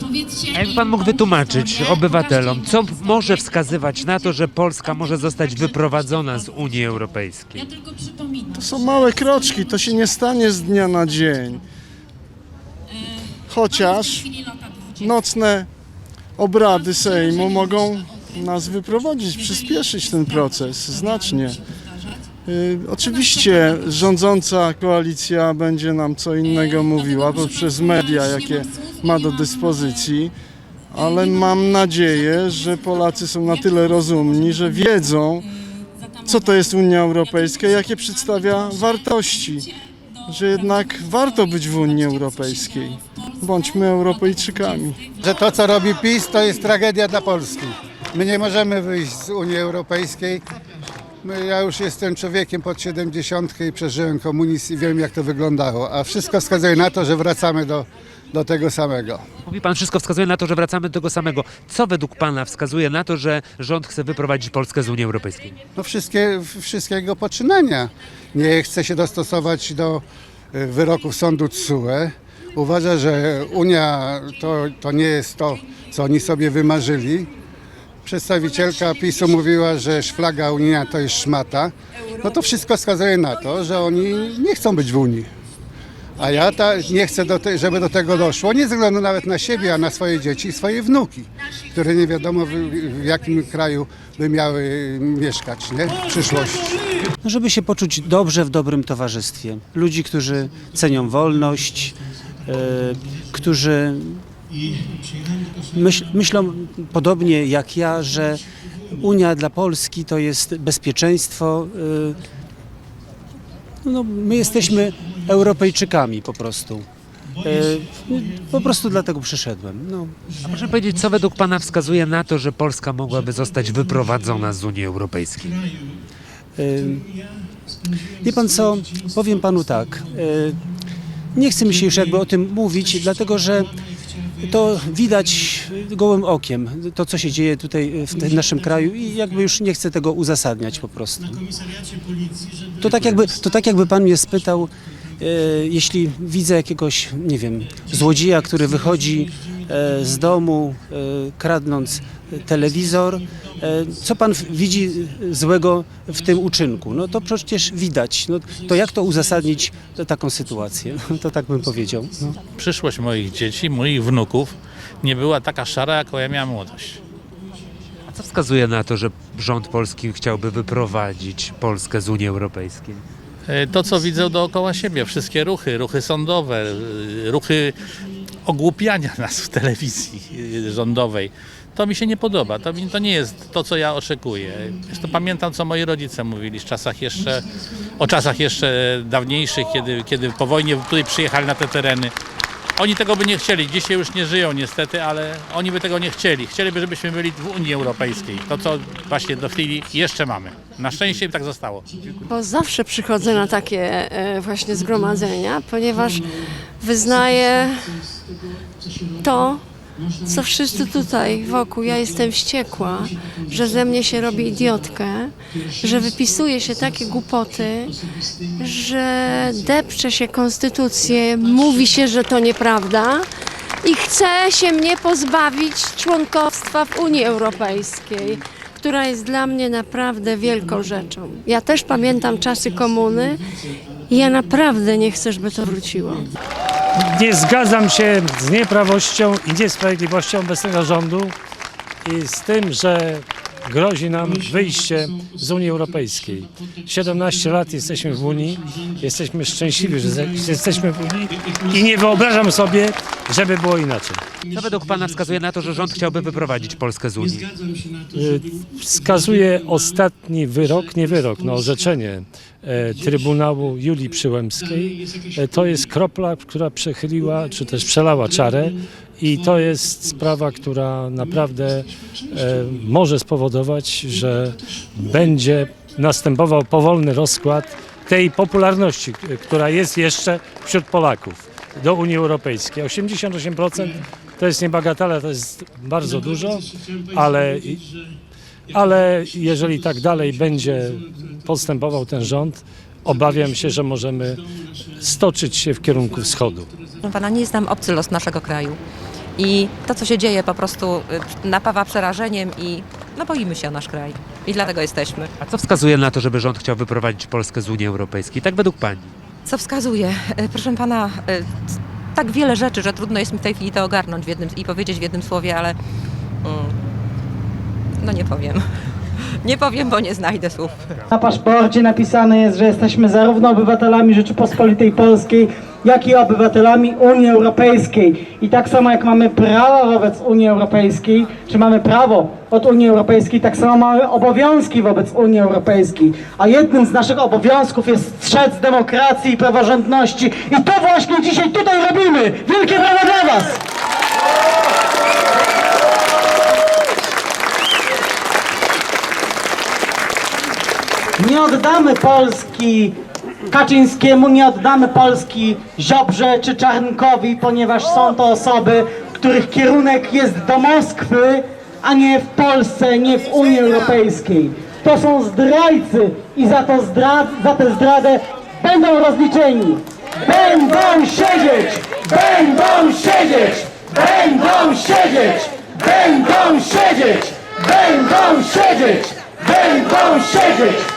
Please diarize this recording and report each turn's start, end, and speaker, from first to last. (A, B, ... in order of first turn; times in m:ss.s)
0:00.5-0:07.7 A
0:08.5-0:11.6 B
0:13.5-0:14.3 B
0:15.0-0:15.7 B
0:16.4-0:21.6 B
0:22.4-0:30.3 B
0:30.9-0:35.5 B
0:36.2-0:39.7 B
0:40.3-0:45.1 B
0:45.2-0:50.4 C
0:51.2-0:59.2 C
0:59.4-1:05.6 A
1:05.8-1:17.3 C
1:18.0-1:25.3 C
1:26.2-1:36.9 C
1:37.2-1:44.2 D
1:45.7-1:48.4 D
1:49.0-1:52.2 D
1:53.8-1:56.9 D
1:57.4-2:00.2 D
2:00.4-2:05.6 A
2:06.6-2:07.1 D
2:08.2-2:10.6 D
2:11.3-2:13.8 D
2:14.4-2:21.4 D
2:22.8-2:42.4 D
2:42.6-2:47.0 E
2:48.1-2:53.0 A
2:53.5-2:57.7 E
2:58.4-3:07.4 E
3:08.0-3:12.1 E
3:12.8-3:21.8 E
3:22.3-3:26.2 F
3:26.8-3:27.9 F
3:29.2-3:29.6 F
3:30.2-3:37.9 F
3:38.6-3:43.2 F
3:43.8-3:53.4 F
3:54.1-3:56.2 F
3:57.0-4:01.3 G
4:02.0-4:14.2 G
4:14.5-4:17.5 A
4:18.1-4:47.8 G
4:48.7-4:54.4 G
4:55.0-4:56.7 G
4:57.1-4:58.7 H
4:59.4-5:00.9 H
5:01.5-5:05.2 H
5:05.4-5:09.1 A
5:09.5-5:11.4 H
5:12.3-5:15.7 H
5:19.5-5:20.6 H
5:21.1-5:43.6 I
5:51.2-5:52.9 I
5:53.5-6:20.8 I